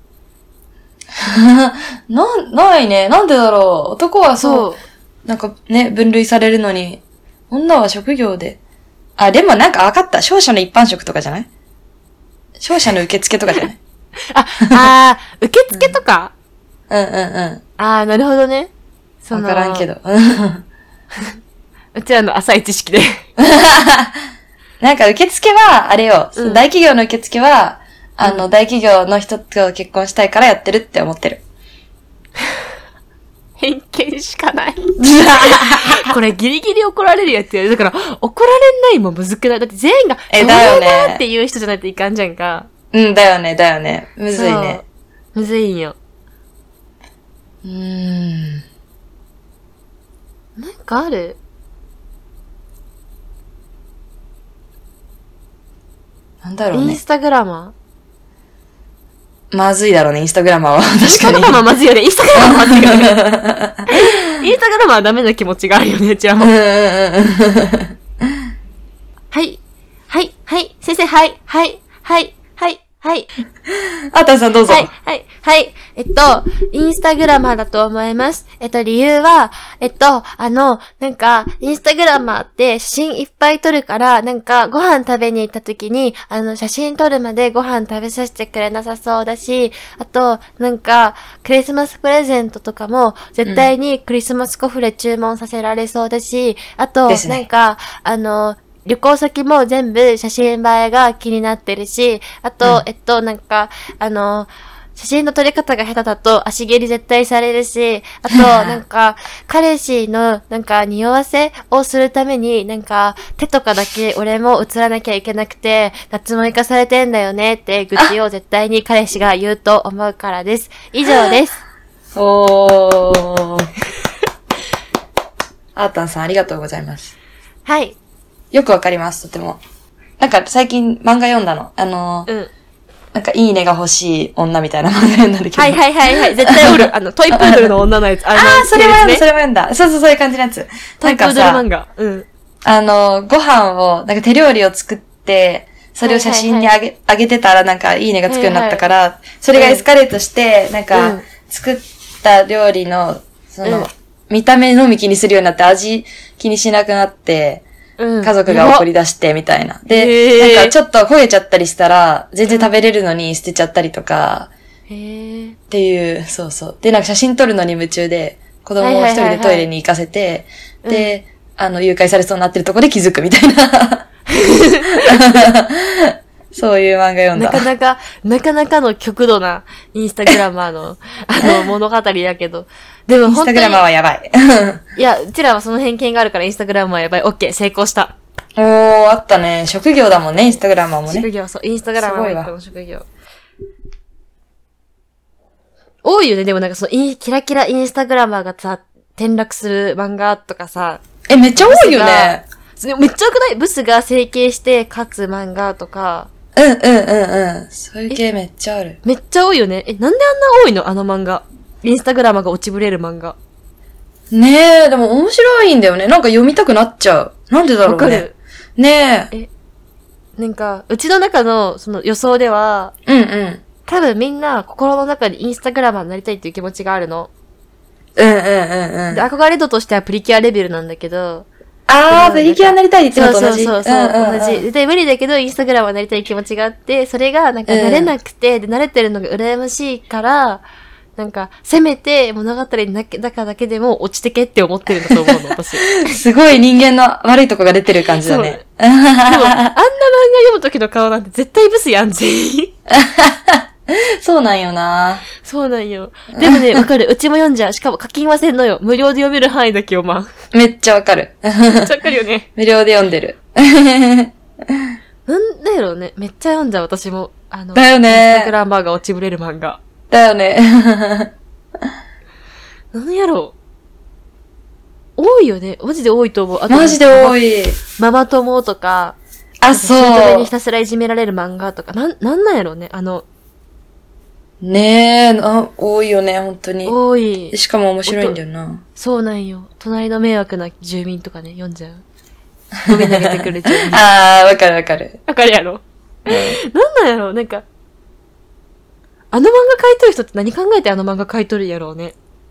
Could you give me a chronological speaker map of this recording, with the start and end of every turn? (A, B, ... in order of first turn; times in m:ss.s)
0:01.2-0:04.7 A
0:04.4-0:04.8 B
0:05.2-0:08.6 A
0:09.2-0:11.5 A
0:12.6-0:13.8 A
0:14.3-0:16.3 B
0:15.7-0:16.0 A
0:16.9-0:17.6 A
0:17.8-0:18.7 B
0:19.2-0:19.9 B
0:19.3-0:20.6 A
0:22.0-0:23.2 B
0:23.4-0:24.2 A
0:24.8-0:31.4 A
0:26.4-0:26.6 B
0:33.6-0:42.7 B
0:35.0-0:36.1 A
0:40.3-0:41.2 A
0:42.9-0:44.8 A
0:44.3-0:44.8 B
0:45.4-0:46.0 B
0:47.6-0:48.6 A
0:50.6-0:51.4 B
0:56.4-0:57.0 A
0:56.7-0:57.7 B
0:59.5-1:01.6 A
1:01.0-1:03.2 B
1:02.4-1:04.1 A
1:03.9-1:06.5 B
1:06.4-1:07.9 A
1:09.3-1:13.3 B
1:13.7-1:14.9 A
1:14.7-2:01.6 B
1:37.1-1:37.4 A
1:48.3-1:48.8 A
2:02.2-2:03.7 A
2:05.8-2:07.1 A
2:07.7-2:08.0 B
2:08.5-2:09.6 A
2:10.2-2:12.3 A
2:13.1-2:17.7 A
2:15.6-2:19.2 B
2:18.3-2:21.6 A
2:21.0-2:22.3 B
2:22.6-2:37.6 A
2:26.0-2:26.7 B
2:28.3-2:28.8 B
2:29.5-2:29.8 B
2:30.9-2:31.2 B
2:38.0-2:38.9 B
2:38.2-2:44.5 A
2:39.9-2:40.7 B
2:42.5-2:42.7 B
2:44.9-2:45.6 B
2:45.7-2:54.0 A
2:48.8-2:49.7 B
2:50.8-2:51.1 B
2:54.3-2:55.4 B
2:55.0-2:57.6 A
2:57.3-3:03.8 B
3:01.4-3:01.7 A
3:03.3-3:04.8 A
3:05.0-3:08.2 B
3:08.6-3:11.3 A
3:11.1-3:13.1 B
3:12.0-3:12.5 A
3:16.0-3:21.0 B
3:21.3-3:22.4 A
3:21.6-3:26.3 B
3:26.6-3:29.0 A
3:29.0-3:33.4 B
3:34.3-3:38.2 A
3:37.8-3:38.4 B
3:38.8-3:39.3 A
3:40.4-3:42.9 B
3:43.1-3:43.6 A
3:43.9-3:47.3 B
3:48.2-3:49.2 A
3:49.1-3:51.5 B
3:51.9-3:54.6 A
3:52.1-4:00.6 B
3:57.7-3:58.1 A
4:01.2-4:06.1 B
4:05.1-4:09.7 A
4:08.2-4:08.6 B
4:09.3-4:12.7 B
4:12.9-4:15.2 A
4:15.4-4:20.3 B
4:16.3-4:16.9 A
4:20.5-4:21.9 A
4:21.8-4:22.5 B
4:22.6-4:25.0 A
4:25.3-4:29.8 B
4:27.8-4:28.5 A
4:30.1-4:31.3 A
4:32.9-4:33.6 B
4:35.2-4:37.4 B
4:36.7-4:37.8 A
4:38.0-4:39.2 B
4:39.6-4:40.5 A
4:39.7-4:43.2 B
4:44.6-4:47.0 A
4:46.9-4:48.4 B
4:47.5-4:48.8 A
4:49.0-4:52.0 B
4:52.8-4:55.2 A
4:52.9-4:54.0 B
4:55.3-4:57.6 B
4:56.3-4:56.6 A
4:59.3-5:02.2 B